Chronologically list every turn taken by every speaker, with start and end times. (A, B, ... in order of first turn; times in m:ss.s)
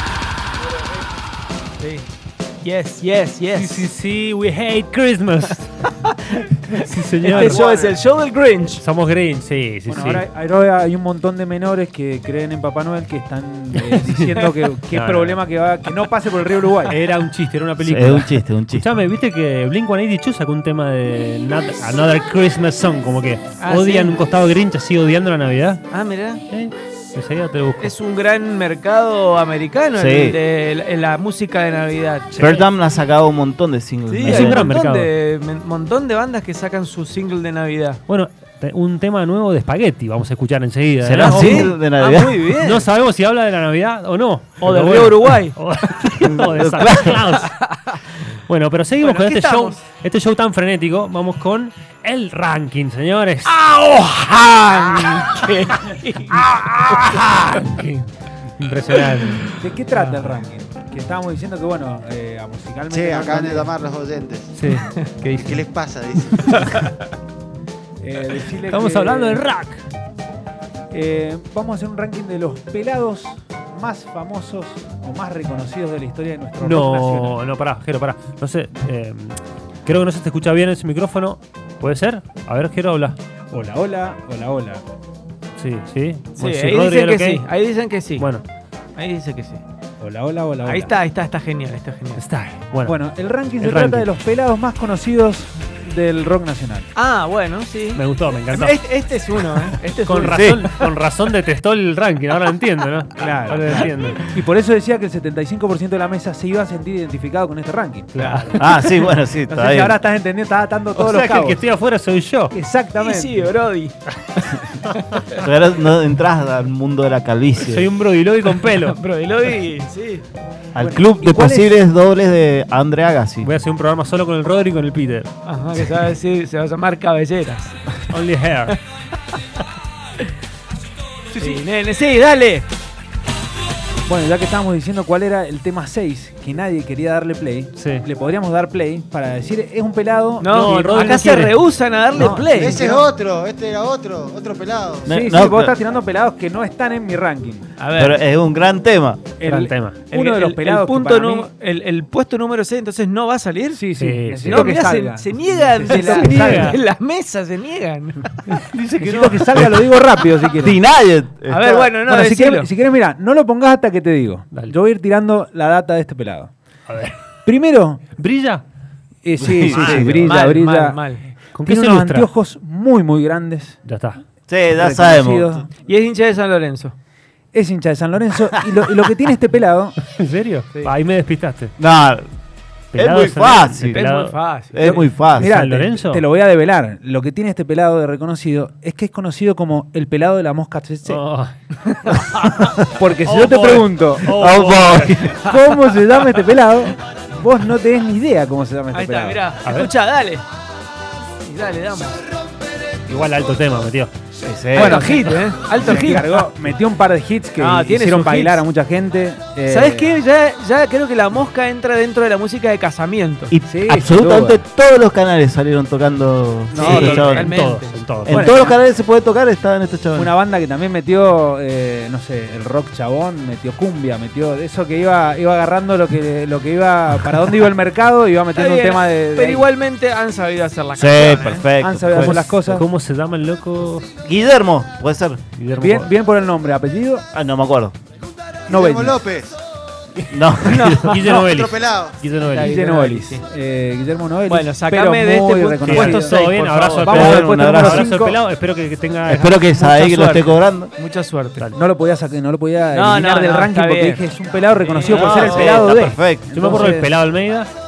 0:01.8-0:02.1 A
0:02.6-0:03.9 A
0:03.6-0:05.9 B
0:06.1-0:06.7 A
0:06.7-0:07.7 B
0:07.2-0:08.8 A
0:08.8-0:10.3 B
0:09.9-0:17.0 C
0:13.8-0:15.4 B
0:16.9-0:25.8 B
0:17.9-0:18.9 D
0:23.6-0:24.2 A
0:25.9-0:26.4 A
0:26.5-0:27.9 B
0:27.8-0:32.6 A
0:30.0-0:30.4 D
0:32.3-0:32.7 B
0:32.4-0:34.6 D
0:34.1-0:38.0 A
0:34.2-0:35.1 B
0:38.1-0:41.8 B
0:41.0-0:42.4 D
0:41.2-0:42.9 A
0:42.6-0:47.5 B
0:44.6-0:45.6 A
0:46.2-0:47.2 D
0:47.1-0:48.0 A
0:48.2-0:53.6 B
0:49.0-0:49.8 A
0:53.5-0:57.5 A
0:56.7-0:58.1 B
0:58.6-0:59.6 B
0:59.5-1:03.7 C
0:59.9-1:00.4 A
1:02.9-1:04.5 E
1:04.6-1:05.7 B
1:05.4-1:06.7 E
1:06.6-1:06.9 A
1:08.0-1:09.4 C
1:08.7-1:09.8 B
1:10.9-1:17.4 C
1:16.6-1:23.2 B
1:23.5-1:24.8 C
1:25.6-1:27.4 B
1:26.4-1:28.3 A
1:28.2-1:28.4 B
1:29.0-1:29.6 A
1:30.0-1:31.0 C
1:30.6-1:32.2 A
1:32.2-1:33.0 B
1:32.8-1:36.9 C
1:33.6-1:34.1 B
1:37.0-1:40.8 A
1:38.0-1:38.8 B
1:40.0-1:44.2 B
1:40.3-1:40.6 D
1:43.2-1:48.2 C
1:43.5-1:43.9 A
1:48.1-1:48.6 B
1:48.2-1:49.1 A
1:48.6-1:50.0 D
1:49.4-1:51.7 C
1:51.0-1:52.6 B
1:52.5-1:53.5 C
1:53.0-1:54.6 A
1:55.1-1:55.4 A
1:55.4-1:57.8 D
1:57.6-1:59.0 B
1:58.9-2:00.2 A
2:00.7-2:03.5 D
2:00.8-2:01.7 C
2:03.4-2:05.3 B
2:05.5-2:07.8 A
2:08.1-2:08.8 B
2:11.4-2:12.7 A
2:14.1-2:21.0 C
2:17.8-2:18.0 B
2:20.4-2:23.1 A
2:20.5-2:21.6 B
2:22.1-2:22.9 C
2:22.2-2:25.2 E
2:25.1-2:25.8 D
2:25.1-2:27.7 C
2:27.8-2:28.2 A
2:28.0-2:29.3 D
2:29.4-2:31.5 C
2:29.4-2:30.0 B
2:30.1-2:33.8 A
2:33.7-2:36.8 C
2:34.0-2:34.8 B
2:34.5-2:38.3 A
2:35.9-2:36.8 B
2:38.5-2:39.5 B
2:38.8-2:39.8 D
2:39.0-2:40.8 C
2:40.6-2:41.7 D
2:41.5-2:42.7 A
2:41.9-2:46.5 C
2:46.9-2:47.2 B
2:47.4-2:48.0 C
2:48.2-2:48.6 B
2:49.2-2:51.0 C
2:49.4-2:50.2 D
2:49.7-2:50.4 B
2:50.0-2:51.2 A
2:51.5-2:52.3 B
2:51.6-2:53.8 C
2:53.8-2:54.2 B
2:54.5-2:55.4 D
2:54.7-2:55.7 C
2:55.8-2:56.9 A
2:57.5-3:00.0 C
3:00.1-3:01.7 B
3:01.8-3:02.3 D
3:02.9-3:04.0 D
3:02.9-3:04.4 B
3:03.9-3:05.0 A
3:04.7-3:05.5 D
3:04.8-3:11.2 C
3:05.4-3:06.2 B
3:11.0-3:11.6 B
3:12.1-3:12.4 A
3:12.9-3:14.3 C
3:13.2-3:15.4 B
3:14.3-3:15.3 D
3:15.4-3:19.4 C
3:15.4-3:16.0 A
3:18.9-3:20.4 A
3:19.6-3:19.9 B
3:21.4-3:22.2 A
3:23.1-3:24.1 B
3:24.4-3:24.9 D
3:24.8-3:25.2 C
3:24.8-3:26.4 A
3:25.8-3:30.2 C
3:27.6-3:28.6 A
3:29.7-3:33.6 A
3:33.5-3:37.4 D
3:33.7-3:34.6 C
3:36.7-3:37.3 C
3:36.7-3:38.8 A
3:36.8-3:38.6 B
3:38.3-3:40.3 D
3:40.2-3:49.7 C
3:48.5-3:51.7 A
3:51.0-3:52.0 D
3:51.8-3:52.9 C
3:52.1-3:54.1 B
3:54.2-3:55.4 D
3:55.5-3:56.1 B
3:55.8-3:57.2 C
3:57.3-3:58.0 D
3:58.7-3:59.2 C
3:58.7-3:59.6 E
4:00.3-4:01.2 D
4:00.6-4:01.4 A
4:01.0-4:02.8 B
4:01.2-4:02.2 E
4:02.5-4:03.4 A
4:02.6-4:08.4 C
4:04.5-4:07.1 A
4:05.8-4:09.8 B
4:07.1-4:07.9 D
4:09.3-4:10.9 D
4:09.7-4:11.7 A
4:11.7-4:17.1 C
4:12.9-4:16.0 A
4:15.1-4:15.6 E
4:15.1-4:16.5 D
4:16.5-4:17.7 B